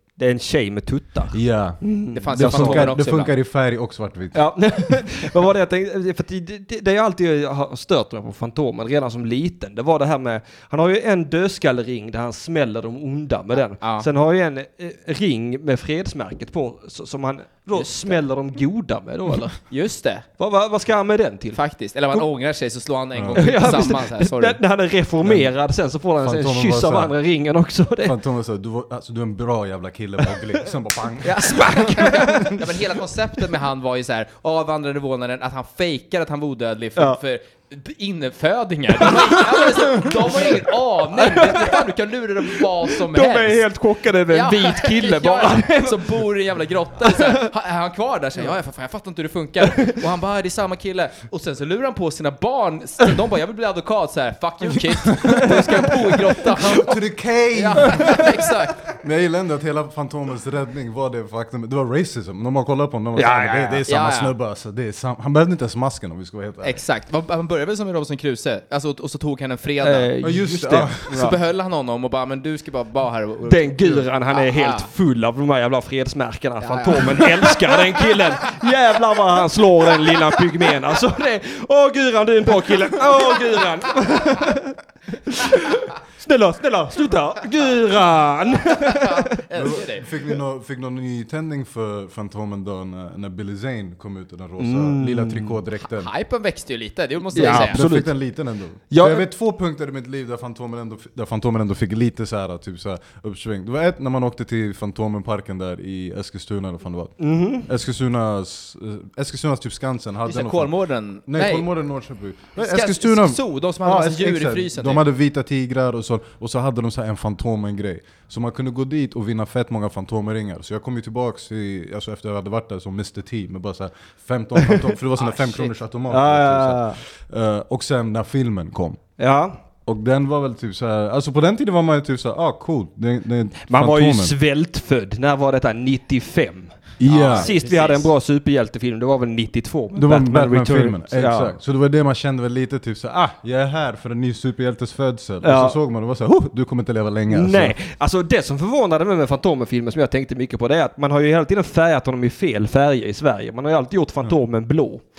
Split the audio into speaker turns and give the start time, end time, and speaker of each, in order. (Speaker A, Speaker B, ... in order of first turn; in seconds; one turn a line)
Speaker A: 0.2-2.9
Speaker B: 1.3-1.8
Speaker C: 2.1-3.3
Speaker B: 2.3-4.4
Speaker A: 4.3-19.6
Speaker C: 13.8-14.1
Speaker C: 17.7-18.2
Speaker C: 19.7-20.2
Speaker A: 20.4-21.6
Speaker C: 21.5-24.6
Speaker B: 23.1-23.6
Speaker A: 23.4-28.2
Speaker B: 25.2-25.5
Speaker B: 26.2-27.1
Speaker B: 28.0-32.5
Speaker C: 31.2-43.6
Speaker A: 31.4-32.5
Speaker A: 39.0-41.8
Speaker A: 42.4-46.2
Speaker C: 44.3-57.0
Speaker A: 47.0-47.5
Speaker B: 55.0-58.2
Speaker C: 57.5-58.9
Speaker A: 57.8-58.3
Speaker B: 59.0-66.8
Speaker A: 63.1-63.8
Speaker C: 63.9-64.3
Speaker C: 66.6-70.1
Speaker A: 69.8-71.3
Speaker B: 70.2-71.3
Speaker C: 71.1-74.9
Speaker A: 73.5-89.3
Speaker C: 76.6-77.8
Speaker C: 88.8-90.1
Speaker B: 89.5-96.1
Speaker A: 94.6-95.5
Speaker C: 95.8-97.8
Speaker B: 97.3-110.7
Speaker A: 97.3-98.2
Speaker A: 98.9-99.2
Speaker A: 107.2-107.7
Speaker C: 110.2-111.7
Speaker B: 111.3-129.0
Speaker C: 112.6-115.1
Speaker C: 125.2-125.7
Speaker A: 126.1-127.0
Speaker A: 129.2-129.6
Speaker B: 129.8-134.3
Speaker A: 133.7-141.6
Speaker B: 137.0-137.5
Speaker C: 137.1-138.1
Speaker B: 139.9-147.8
Speaker A: 145.4-145.8
Speaker A: 147.3-155.0